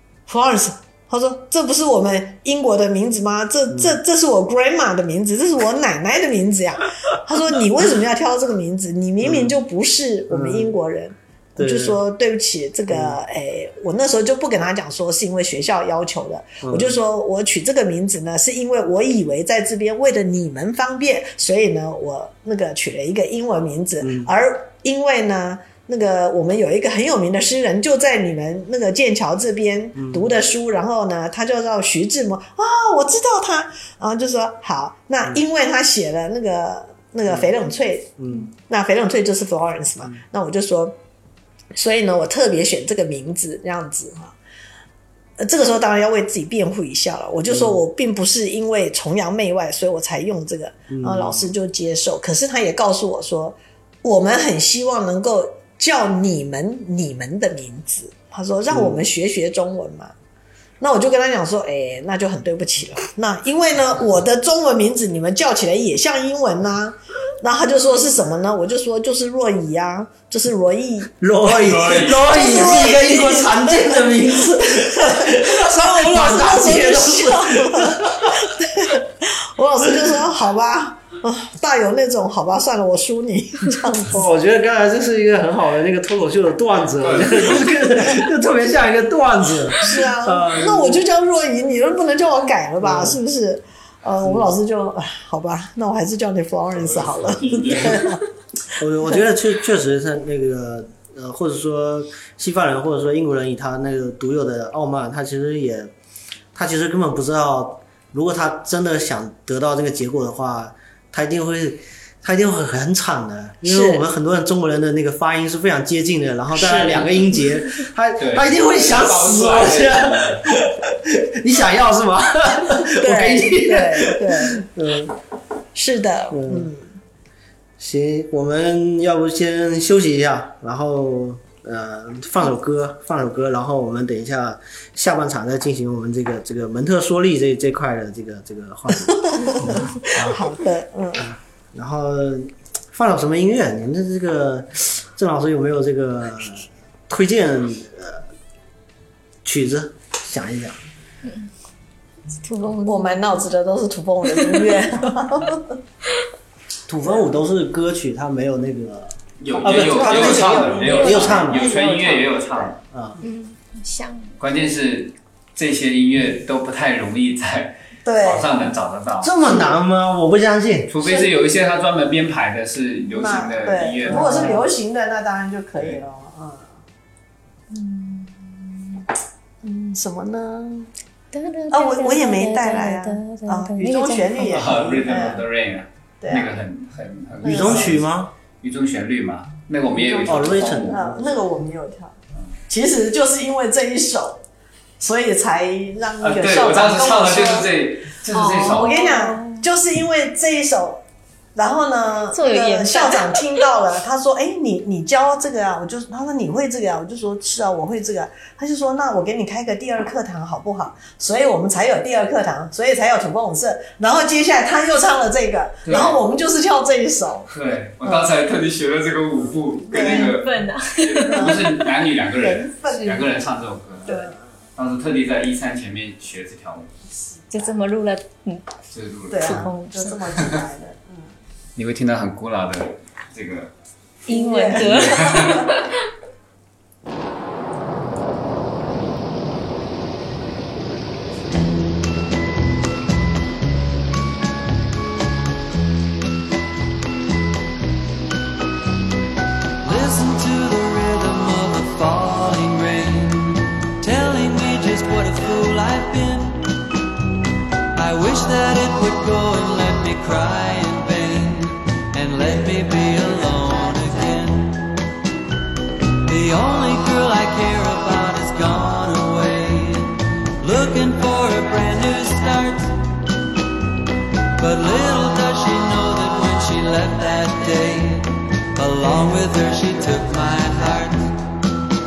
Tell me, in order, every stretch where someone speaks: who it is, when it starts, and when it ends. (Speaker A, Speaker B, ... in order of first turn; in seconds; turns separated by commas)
Speaker A: 0.3-41.0, Speaker B: 3.7-4.0, Speaker B: 9.2-9.5, Speaker B: 10.3-10.8, Speaker B: 11.6-12.0, Speaker B: 12.9-13.2, Speaker B: 16.6-17.0, Speaker B: 24.0-24.3, Speaker B: 29.9-30.3, Speaker B: 38.2-38.5, Speaker A: 41.7-44.4, Speaker A: 45.4-60.1, Speaker B: 47.5-47.8, Speaker B: 50.9-51.5, Speaker B: 58.7-59.0, Speaker A: 60.8-71.1, Speaker B: 71.2-78.4, Speaker C: 71.6-72.8, Speaker A: 72.2-84.2, Speaker B: 84.0-91.0, Speaker C: 87.0-87.5, Speaker A: 89.8-98.2, Speaker B: 92.8-93.2, Speaker C: 97.1-98.1, Speaker B: 98.8-105.9, Speaker B: 106.5-125.1, Speaker A: 113.6-114.1, Speaker A: 116.5-117.2, Speaker C: 118.2-120.5, Speaker A: 122.9-124.6, Speaker A: 125.7-126.9, Speaker B: 126.3-126.7, Speaker B: 127.8-140.5, Speaker A: 139.3-141.3, Speaker B: 141.2-148.2, Speaker B: 149.4-150.8, Speaker D: 152.4-153.4, Speaker A: 152.8-155.8, Speaker D: 154.3-154.7, Speaker B: 156.9-163.2, Speaker C: 159.4-162.8, Speaker A: 159.7-162.3, Speaker D: 160.1-161.9, Speaker D: 163.2-164.3, Speaker C: 164.4-169.4, Speaker A: 168.0-168.5, Speaker B: 169.2-170.9, Speaker C: 170.9-174.6, Speaker A: 173.1-176.7, Speaker B: 174.1-174.6, Speaker D: 177.7-179.0, Speaker A: 179.6-180.9, Speaker D: 181.3-184.6, Speaker A: 181.7-185.4, Speaker C: 184.5-188.0, Speaker A: 186.2-186.5, Speaker A: 187.4-188.0, Speaker B: 187.4-188.3, Speaker C: 188.6-191.0, Speaker A: 189.9-192.1, Speaker B: 190.2-191.3, Speaker A: 192.7-194.4, Speaker A: 195.0-197.7, Speaker C: 196.2-199.0, Speaker D: 198.3-199.7, Speaker A: 198.4-201.0, Speaker A: 201.6-217.5, Speaker D: 202.3-203.7, Speaker C: 215.9-216.2, Speaker C: 217.5-227.1, Speaker A: 218.0-218.3, Speaker A: 219.9-220.4, Speaker D: 220.0-221.9, Speaker A: 221.3-221.8, Speaker A: 222.3-223.3, Speaker A: 224.1-224.4, Speaker D: 227.5-228.7, Speaker C: 228.9-229.7, Speaker A: 229.3-231.3, Speaker D: 229.4-230.2, Speaker C: 230.4-230.6, Speaker C: 231.8-233.7, Speaker A: 234.3-235.7, Speaker D: 234.3-236.0, Speaker C: 234.7-235.7, Speaker E: 249.8-256.7, Speaker E: 257.9-264.9, Speaker E: 266.2-273.0, Speaker E: 274.6-281.4